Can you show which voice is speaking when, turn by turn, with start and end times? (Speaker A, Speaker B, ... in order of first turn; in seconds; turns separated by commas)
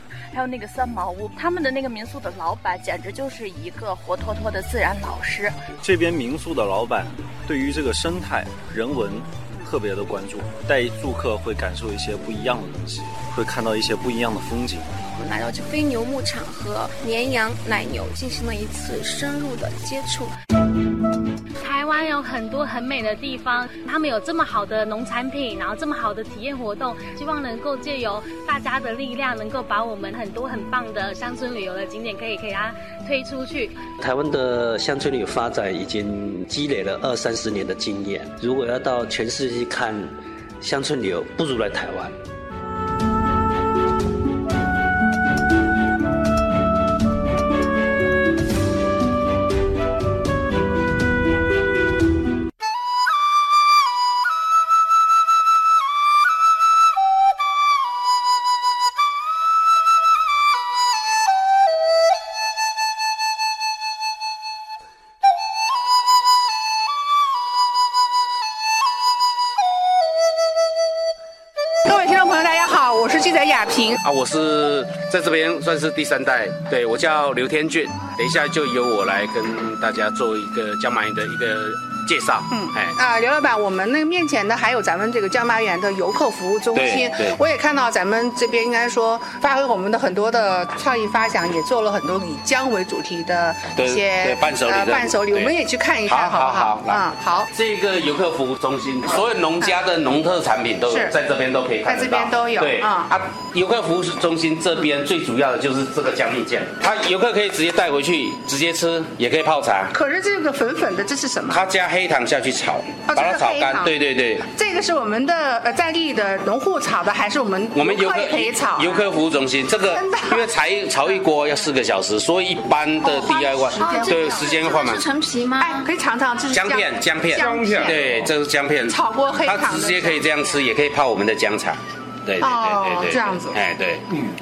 Speaker A: 0.3-5.6, Speaker B: 5.8-15.1, Speaker C: 15.1-20.4, Speaker D: 21.6-33.8, Speaker E: 34.0-42.1, Speaker F: 71.8-74.0, Speaker G: 74.0-83.0, Speaker F: 82.5-97.5, Speaker G: 86.8-87.4, Speaker G: 93.8-95.5, Speaker G: 96.1-110.0, Speaker F: 101.8-103.1, Speaker F: 109.9-111.7, Speaker G: 111.5-114.5, Speaker F: 113.1-113.9, Speaker F: 114.4-119.1, Speaker G: 117.7-125.1, Speaker F: 119.9-120.5, Speaker F: 123.1-124.5, Speaker C: 123.2-125.8, Speaker F: 125.6-128.1, Speaker G: 126.5-134.1, Speaker F: 128.9-130.6, Speaker F: 132.4-133.6